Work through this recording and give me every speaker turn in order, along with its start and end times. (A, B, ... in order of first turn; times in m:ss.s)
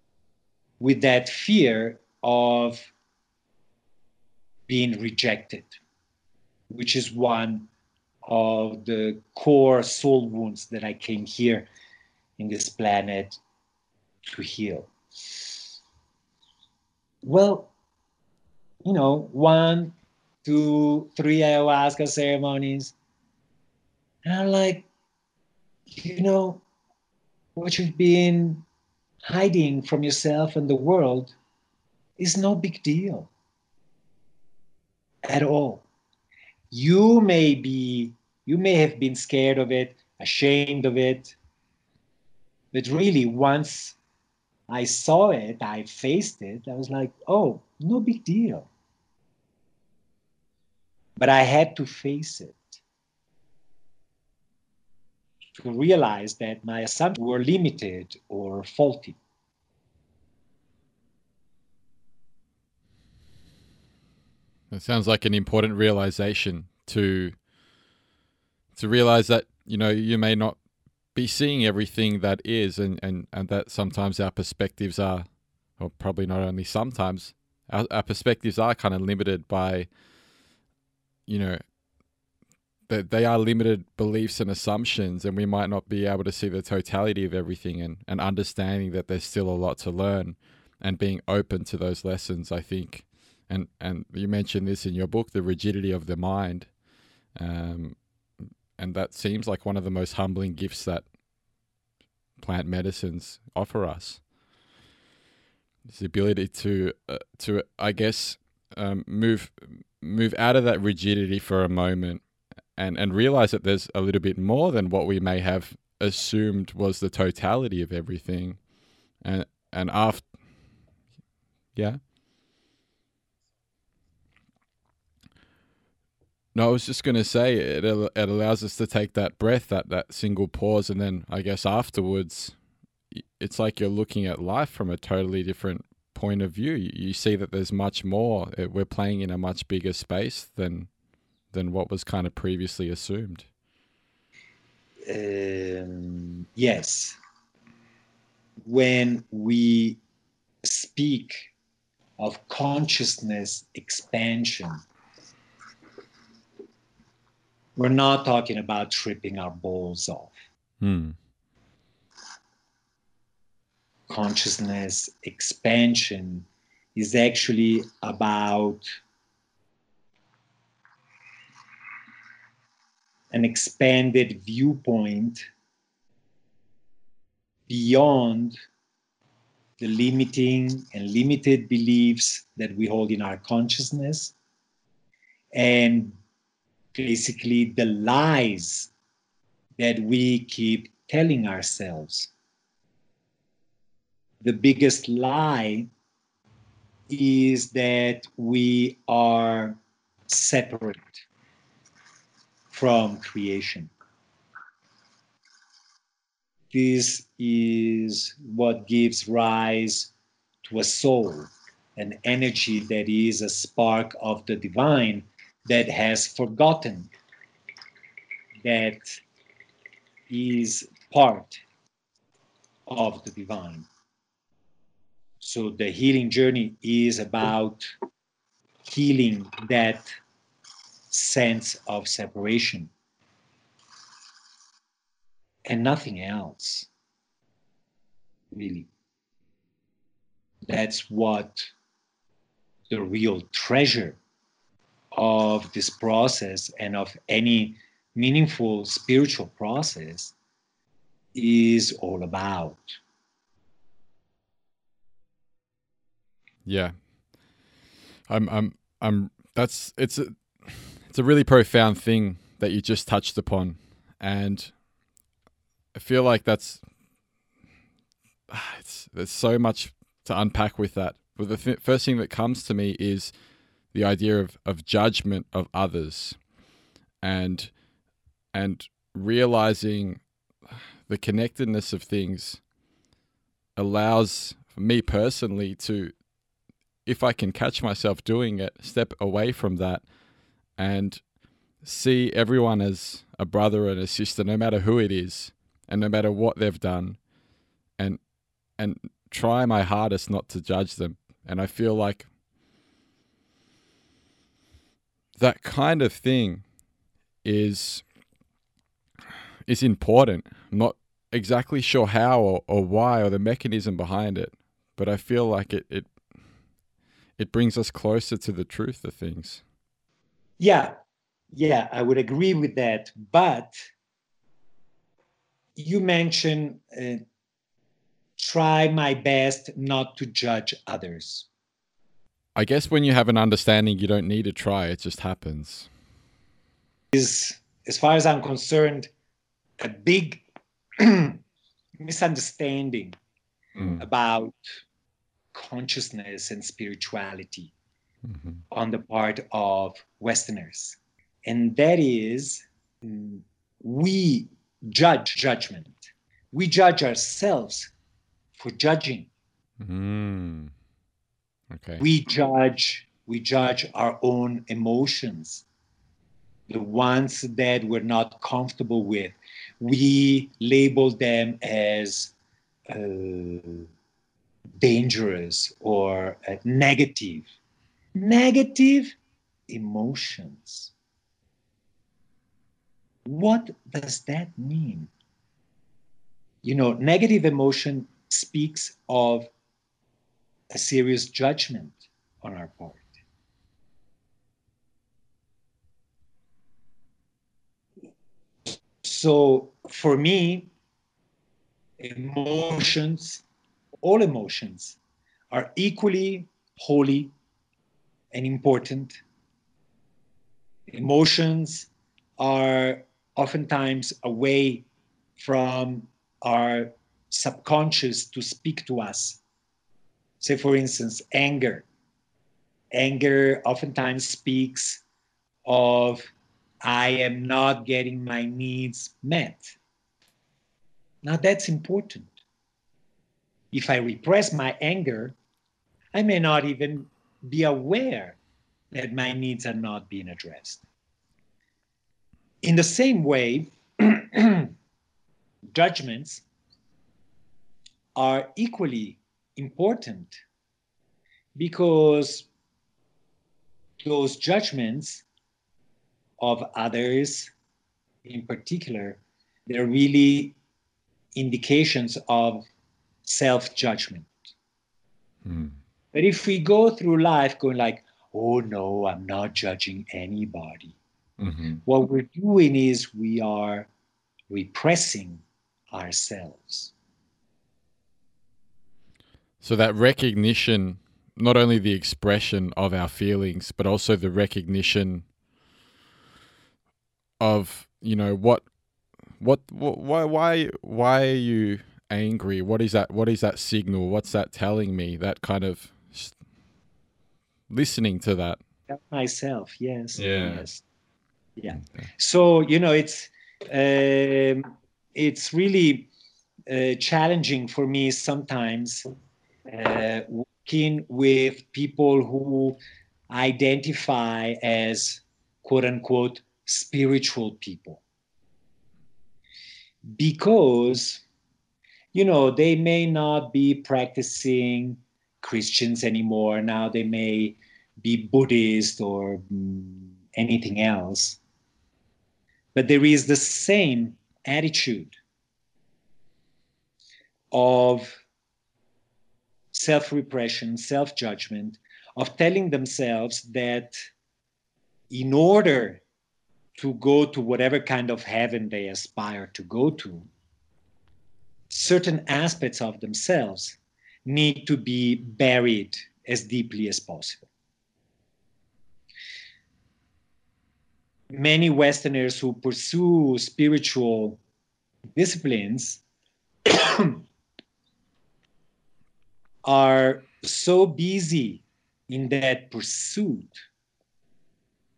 0:00.8-0:02.9 A
0:04.7-0:05.8 A
0:06.7-0:07.7 A
0:08.2-0:11.7 A
0:12.4-0:13.4 A
0:14.3-0:14.9 A
0:17.2-0:17.7 A
0:18.8-0:22.9 A
0:24.2-0:24.9 A
0:25.9-0:26.6 A
0:27.6-0:28.7 A
0:29.3-0:31.3 A
0:32.2-0:33.3 A
0:35.2-0:35.8 A
0:36.7-0:41.4 A
0:42.7-0:44.0 A
0:44.7-0:48.7 A
0:51.2-0:52.8 A
0:55.6-0:59.2 A
1:04.7-1:07.4 B
1:08.8-1:10.6 B
1:11.1-1:19.9 B
1:21.3-1:21.6 B
1:22.9-1:36.7 B
1:37.3-1:38.1 B
1:38.8-1:41.1 B
1:42.4-1:44.2 B
1:45.9-1:52.2 B
1:52.8-1:58.6 B
1:59.2-2:00.3 B
2:01.8-2:02.0 B
2:06.5-2:12.6 B
2:13.1-2:20.9 B
2:21.5-2:23.5 B
2:25.1-2:27.2 A
2:28.7-2:30.0 A
2:30.6-2:31.5 A
2:32.2-2:34.8 A
2:37.8-2:40.4 A
2:40.8-2:41.2 B
2:44.1-2:48.9 A
2:53.3-2:55.4 A
2:57.7-2:58.6 A
2:59.8-3:04.4 A
3:05.5-3:06.2 A
3:06.9-3:08.9 A
3:09.8-3:12.3 A
3:14.4-3:15.9 A
3:17.1-3:21.2 A
3:22.7-3:23.9 A
3:26.7-3:30.1 A
3:30.6-3:37.1 A
3:38.6-3:39.2 A
3:40.3-3:41.6 A
3:42.9-3:43.9 A
3:45.4-3:47.9 A
3:48.9-3:50.1 A
3:51.1-3:52.9 A
3:55.7-3:56.9 A
3:58.5-3:58.9 A
4:00.7-4:01.7 A
4:02.9-4:04.2 A
4:05.1-4:10.4 A
4:11.4-4:13.0 A
4:16.6-4:17.0 B
4:18.3-4:24.8 B
4:25.9-4:26.8 B
4:28.5-4:33.3 B
4:33.9-4:36.4 B
4:37.2-4:37.7 B
4:38.5-4:42.6 B
4:43.8-4:46.1 B
4:47.1-4:50.0 B
4:50.8-4:51.2 B
4:51.8-4:57.2 B
4:58.8-5:02.3 B
5:05.4-5:06.6 B
5:07.4-5:08.0 B
5:09.6-5:16.1 B
5:17.4-5:19.6 B
5:20.6-5:20.9 A
5:21.5-5:23.8 A
5:25.8-5:27.2 A
5:28.4-5:31.5 A
5:32.6-5:35.9 B
5:37.1-5:39.1 A
5:39.8-5:40.4 A
5:41.0-5:41.4 A
5:42.0-5:43.2 A
5:43.8-5:44.0 B
5:44.0-5:44.6 A
5:45.5-5:47.7 A
5:48.3-5:48.6 B
5:48.7-5:57.9 A
5:58.6-5:59.3 A
5:59.8-6:00.7 B
6:01.7-6:02.0 B
6:02.0-6:05.6 A
6:06.7-6:12.3 A
6:12.9-6:13.9 A
6:14.8-6:17.5 A
6:18.2-6:19.2 A
6:19.7-6:20.9 A
6:23.3-6:25.1 A
6:26.6-6:29.5 A
6:30.7-6:33.2 A
6:39.0-6:40.7 A
6:42.0-6:43.4 A
6:44.0-6:45.0 A
6:45.5-6:47.3 A
6:48.3-6:49.2 A
6:50.9-6:54.9 A
6:55.4-6:59.4 A
7:00.4-7:01.9 A
7:02.9-7:05.0 A
7:05.7-7:06.3 A
7:06.8-7:09.8 A
7:11.2-7:12.3 A
7:13.7-7:15.4 A
7:16.1-7:18.4 A
7:18.9-7:20.8 A
7:22.6-7:24.7 A
7:25.8-7:26.4 A
7:28.2-7:30.4 A
7:31.6-7:32.5 A
7:34.0-7:35.2 A
7:36.4-7:37.5 A
7:38.2-7:40.6 A
7:41.4-7:42.7 A
7:43.2-7:44.3 A
7:45.4-7:45.8 B
7:46.1-7:51.0 A
7:51.4-7:51.8 B
7:51.8-7:53.9 A
7:54.5-7:56.9 A
7:59.6-8:05.3 B
8:07.4-8:08.7 B
8:09.4-8:16.4 B
8:17.7-8:18.6 B
8:18.9-8:20.8 A
8:20.2-8:20.6 B
8:21.6-8:26.1 A
8:26.7-8:29.1 A
8:29.7-8:32.8 A
8:33.3-8:38.0 A
8:40.2-8:41.2 A
8:42.1-8:51.4 A
8:52.7-8:55.2 A
8:57.5-8:58.2 A
8:59.7-9:04.0 A
9:05.1-9:06.0 A
9:06.8-9:10.3 A
9:11.7-9:17.5 A
9:21.3-9:24.4 A
9:25.2-9:26.0 A
9:26.7-9:27.2 A
9:29.6-9:33.6 A